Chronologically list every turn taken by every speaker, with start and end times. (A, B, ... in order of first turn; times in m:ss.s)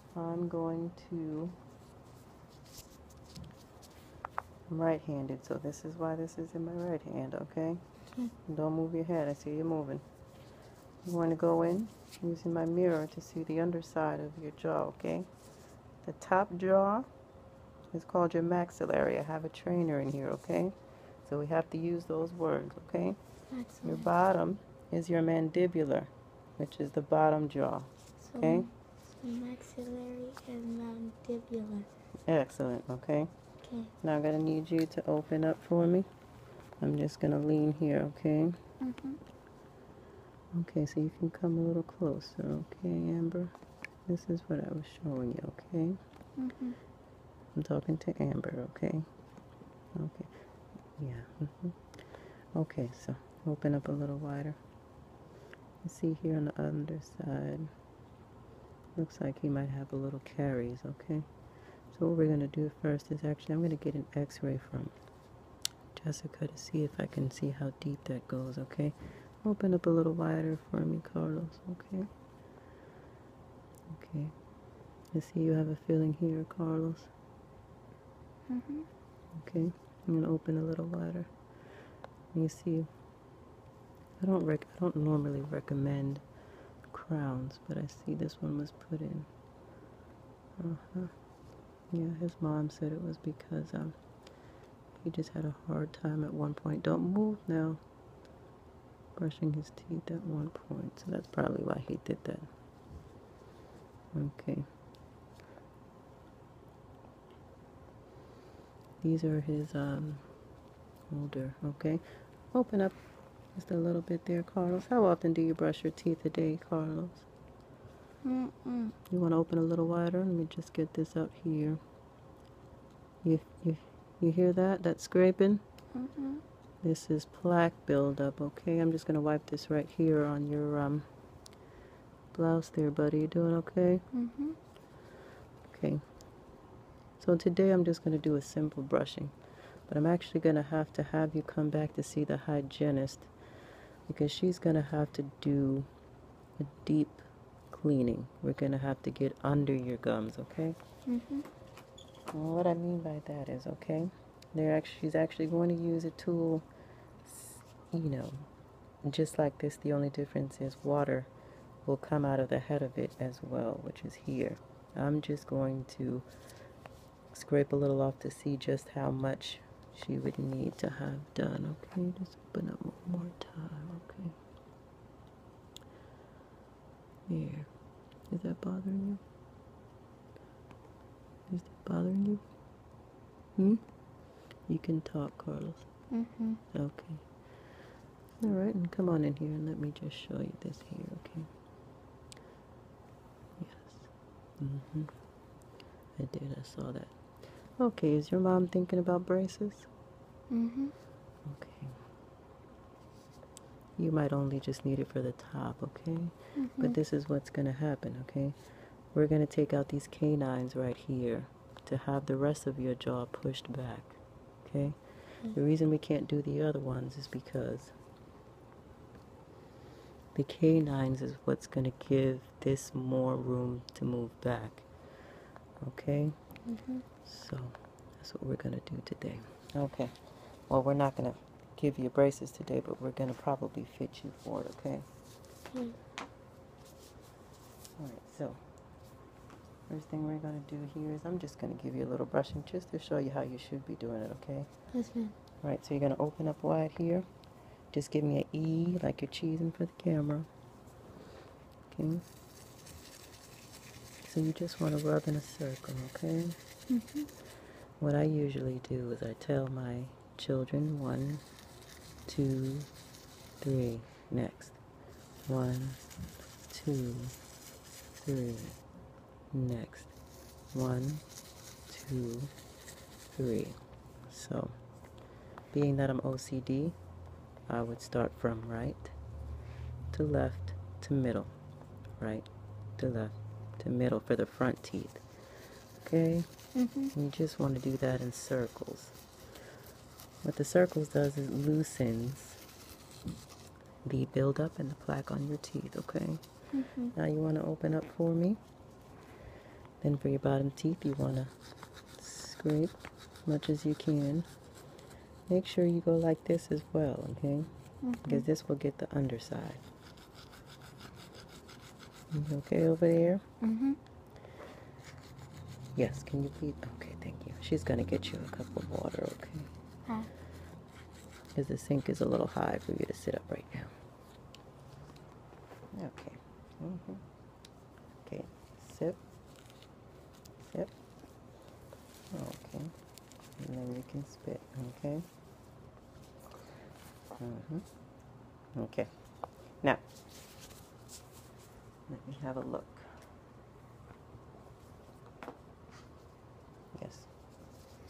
0:00.2-0:01.6 A
0:04.7-0:07.8 A
0:08.4-0:10.0 A
0:11.0-0:15.3 A
0:16.0-0:17.1 A
0:17.9-0:23.2 A
0:23.5-0:24.1 B
0:23.8-0:28.7 A
0:28.2-0:31.9 B
0:32.3-0:33.3 A
0:33.6-0:33.9 B
0:34.0-0:36.1 A
0:36.8-0:38.6 A
0:38.8-0:39.2 B
0:40.5-0:43.6 A
0:44.1-0:46.0 A
0:46.4-0:46.8 B
0:47.6-0:49.1 A
0:50.0-0:50.3 A
0:51.0-0:51.8 A
0:52.6-0:54.6 A
0:55.8-0:57.7 A
0:59.0-1:01.3 A
1:01.9-1:05.0 A
1:06.0-1:12.1 A
1:13.9-1:14.3 A
1:15.1-1:17.1 A
1:18.5-1:18.9 B
1:19.4-1:21.3 A
1:22.3-1:22.9 A
1:24.2-1:26.2 A
1:26.9-1:29.3 A
1:30.6-1:31.1 A
1:31.9-1:34.0 A
1:35.0-1:37.8 A
1:39.2-1:42.5 A
1:44.1-1:44.7 A
1:49.0-1:50.2 A
1:51.1-1:53.0 A
1:53.6-1:57.3 A
1:58.2-1:59.0 B
1:59.1-2:01.8 A
2:03.2-2:05.6 A
2:05.9-2:06.4 B
2:06.8-2:11.1 A
2:12.3-2:14.0 A
2:14.1-2:14.6 B
2:15.7-2:16.0 A
2:17.2-2:19.3 A
2:19.9-2:23.3 A
2:24.1-2:25.9 A
2:26.6-2:30.8 A
2:31.1-2:31.5 B
2:32.3-2:36.6 A
2:37.2-2:38.5 A
2:39.0-2:41.3 A
2:41.9-2:46.3 A
2:47.3-2:54.4 A
2:57.3-2:57.7 A
2:58.3-2:59.2 A
3:01.5-3:02.4 A
3:03.6-3:03.8 A
3:04.7-3:05.9 A
3:06.1-3:06.6 B
3:06.7-3:07.3 A
3:08.4-3:11.5 A
3:13.6-3:15.1 A
3:16.2-3:17.1 A
3:17.8-3:19.9 A
3:20.5-3:20.9 B
3:21.5-3:21.9 A
3:24.0-3:28.6 A
3:26.6-3:27.0 B
3:29.1-3:38.0 A
3:40.3-3:44.9 A
3:45.8-3:46.4 A
3:46.7-3:47.0 B
3:47.2-3:50.2 A
3:50.7-3:55.1 A
3:55.7-3:56.0 B
3:58.0-3:58.6 A
3:59.9-4:04.7 A
4:04.9-4:05.4 B
4:05.6-4:07.3 A
4:07.9-4:10.5 A
4:11.9-4:12.2 A
4:14.2-4:16.6 A
4:16.9-4:17.3 B
4:18.0-4:21.4 A
4:22.3-4:22.9 A
4:23.6-4:24.8 A
4:25.4-4:26.0 A
4:26.7-4:27.4 A
4:28.2-4:28.8 A
4:29.5-4:30.1 A
4:30.7-4:31.2 A
4:31.9-4:32.5 A
4:33.3-4:34.8 A
4:35.7-4:37.0 A
4:37.7-4:39.2 A
4:40.1-4:41.5 A
4:42.2-4:42.5 A
4:43.0-4:45.2 A
4:46.0-4:46.5 A
4:46.8-4:47.1 B
4:47.1-4:49.2 A
4:50.4-4:52.6 A
4:54.0-4:56.4 A
4:56.7-4:57.1 B
4:57.1-4:58.6 A
5:00.0-5:01.5 A
5:02.2-5:04.5 A
5:05.5-5:07.7 A
5:08.0-5:08.4 B
5:08.2-5:09.8 A
5:12.3-5:13.4 A
5:13.6-5:14.0 B
5:16.0-5:19.7 A
5:21.6-5:23.9 A
5:25.9-5:27.2 A
5:28.2-5:29.2 A
5:30.7-5:30.9 A
5:32.3-5:32.9 A
5:33.6-5:35.2 A
5:37.4-5:37.8 A
5:38.8-5:39.1 A
5:42.1-5:43.1 A
5:46.9-5:47.3 A